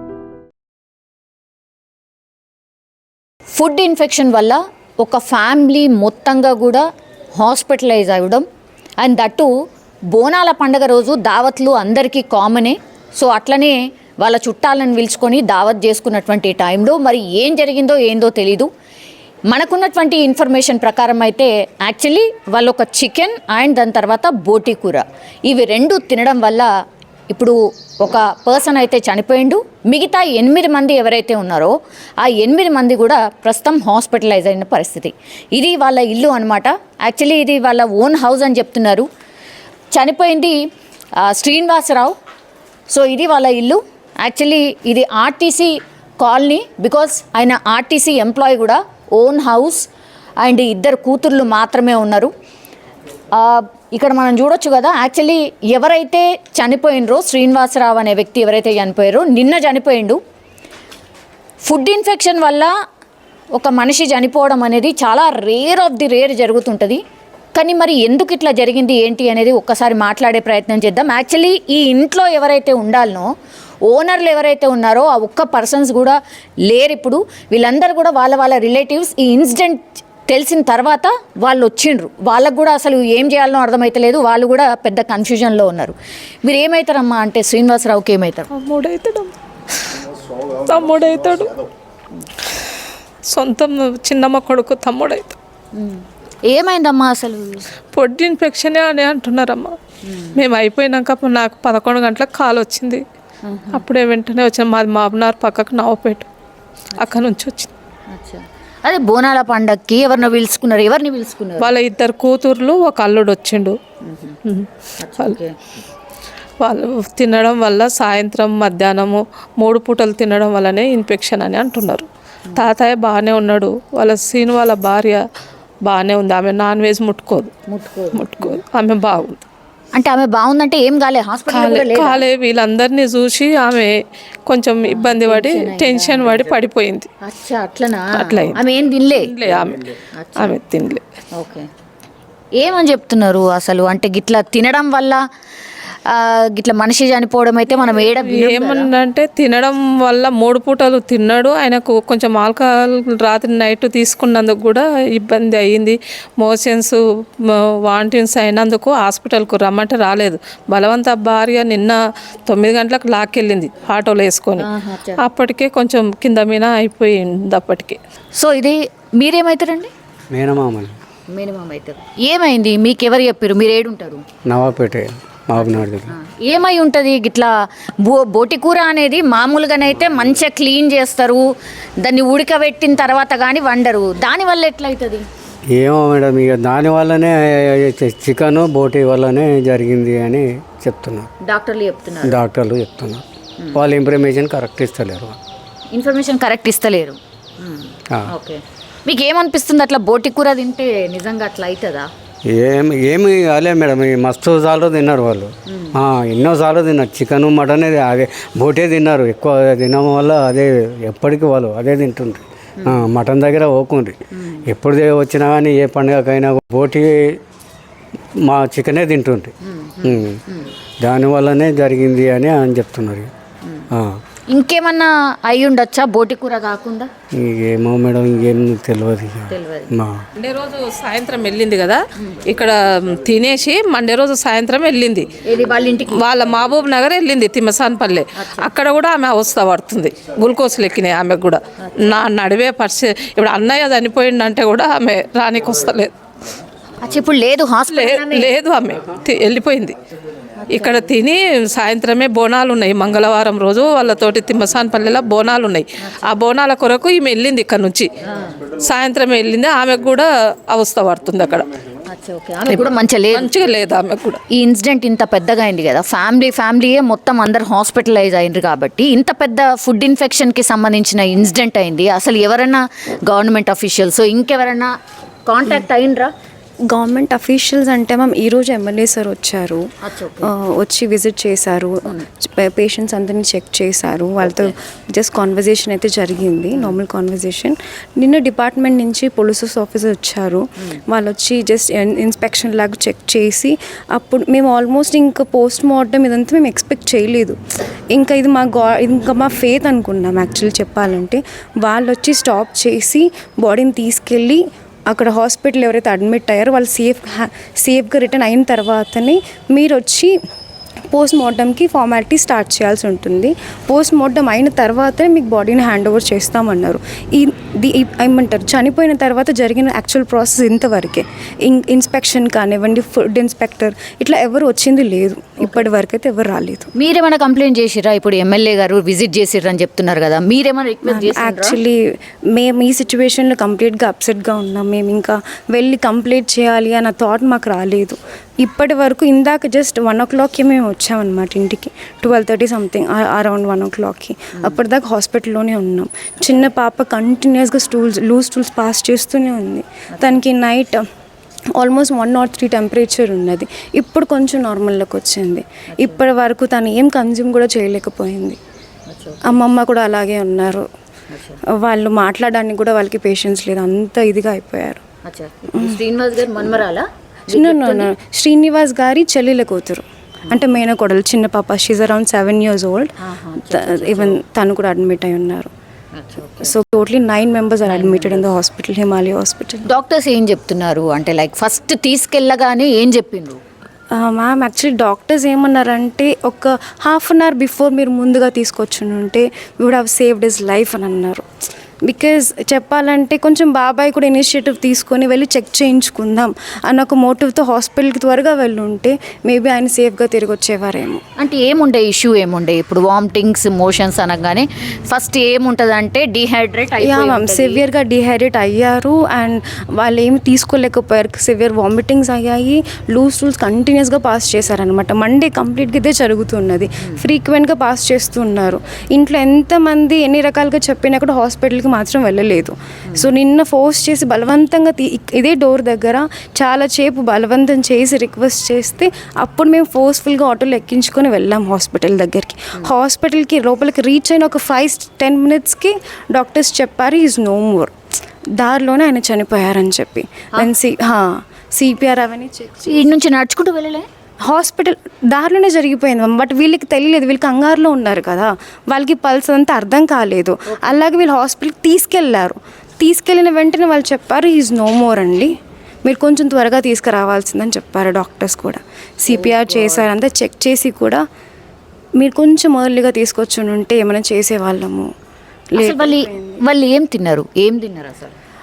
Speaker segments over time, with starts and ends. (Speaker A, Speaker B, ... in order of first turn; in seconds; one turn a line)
Speaker A: 3.5-8.5
Speaker A: 9.0-9.5
Speaker A: 10.1-18.7
Speaker A: 19.5-26.7
Speaker A: 27.3-39.1
Speaker A: 39.9-40.6
Speaker A: 41.2-42.2
Speaker A: 42.9-49.9
Speaker A: 50.4-52.3
Speaker A: 53.4-60.2
Speaker A: 61.6-62.7
Speaker A: 63.5-67.0
Speaker A: 67.5-73.3
Speaker A: 73.9-88.5
Speaker B: 88.5-89.3
Speaker B: 90.7-91.5
Speaker B: 93.3-95.4
Speaker A: 95.7-97.7
Speaker B: 97.9-99.7
Speaker A: 100.0-100.4
Speaker B: 100.4-103.0
Speaker A: 103.4-103.9
Speaker B: 103.7-106.3
Speaker B: 107.0-107.7
Speaker A: 108.1-111.7
Speaker B: 111.6-113.8
Speaker A: 114.0-114.4
Speaker A: 115.0-115.5
Speaker B: 116.6-125.2
Speaker B: 125.8-127.5
Speaker A: 127.7-128.6
Speaker B: 128.2-129.4
Speaker A: 129.9-132.2
Speaker B: 131.5-134.0
Speaker B: 134.5-137.1
Speaker A: 134.9-136.4
Speaker A: 137.2-139.4
Speaker B: 138.2-141.0
Speaker A: 140.1-140.6
Speaker A: 141.4-141.7
Speaker A: 142.6-145.2
Speaker A: 146.1-148.9
Speaker B: 147.7-157.0
Speaker B: 157.9-164.7
Speaker A: 164.6-165.2
Speaker B: 165.2-168.0
Speaker A: 168.4-169.9
Speaker C: 170.3-171.0
Speaker A: 171.3-174.2
Speaker C: 174.5-176.1
Speaker A: 175.6-181.5
Speaker A: 182.0-185.3
Speaker C: 185.8-191.3
Speaker A: 191.4-192.4
Speaker C: 192.2-193.2
Speaker C: 193.8-195.4
Speaker A: 195.9-202.1
Speaker C: 202.5-217.4
Speaker A: 205.7-206.0
Speaker A: 214.3-214.6
Speaker C: 218.4-219.5
Speaker A: 219.6-220.7
Speaker C: 220.0-220.4
Speaker C: 221.0-223.3
Speaker A: 223.6-223.9
Speaker C: 223.9-224.2
Speaker A: 224.5-227.1
Speaker C: 227.4-230.2
Speaker A: 229.5-229.9
Speaker B: 230.4-235.3
Speaker A: 235.4-236.2
Speaker B: 236.2-246.1
Speaker A: 238.4-238.7
Speaker A: 247.0-248.5
Speaker B: 247.9-250.0
Speaker A: 250.7-251.1
Speaker B: 250.7-258.1
Speaker A: 258.3-258.6
Speaker B: 258.8-261.7
Speaker A: 262.1-263.5
Speaker B: 263.3-264.4
Speaker A: 264.5-274.9
Speaker A: 275.5-276.3
Speaker D: 276.9-279.9
Speaker A: 280.0-280.5
Speaker D: 280.4-297.6
Speaker D: 298.1-310.3
Speaker D: 311.1-326.9
Speaker A: 327.0-331.8
Speaker D: 331.1-332.0
Speaker D: 332.5-351.1
Speaker A: 350.1-350.4
Speaker D: 351.8-358.6
Speaker A: 359.1-359.6
Speaker D: 359.5-360.9
Speaker A: 361.3-361.6
Speaker D: 361.8-365.0
Speaker A: 365.2-368.1
Speaker D: 365.8-366.0
Speaker D: 367.5-373.1
Speaker A: 373.2-374.4
Speaker D: 373.7-375.7
Speaker A: 376.1-376.7
Speaker D: 376.6-379.9
Speaker A: 377.9-378.4
Speaker A: 379.9-383.6
Speaker D: 384.1-391.4
Speaker D: 392.1-401.2
Speaker A: 401.4-407.8
Speaker D: 407.0-437.9
Speaker D: 438.6-443.1
Speaker A: 442.8-444.1
Speaker D: 444.4-455.5
Speaker A: 450.7-451.0
Speaker D: 456.1-461.2
Speaker A: 459.3-460.0
Speaker D: 462.2-465.1
Speaker D: 465.7-466.6
Speaker A: 465.8-468.4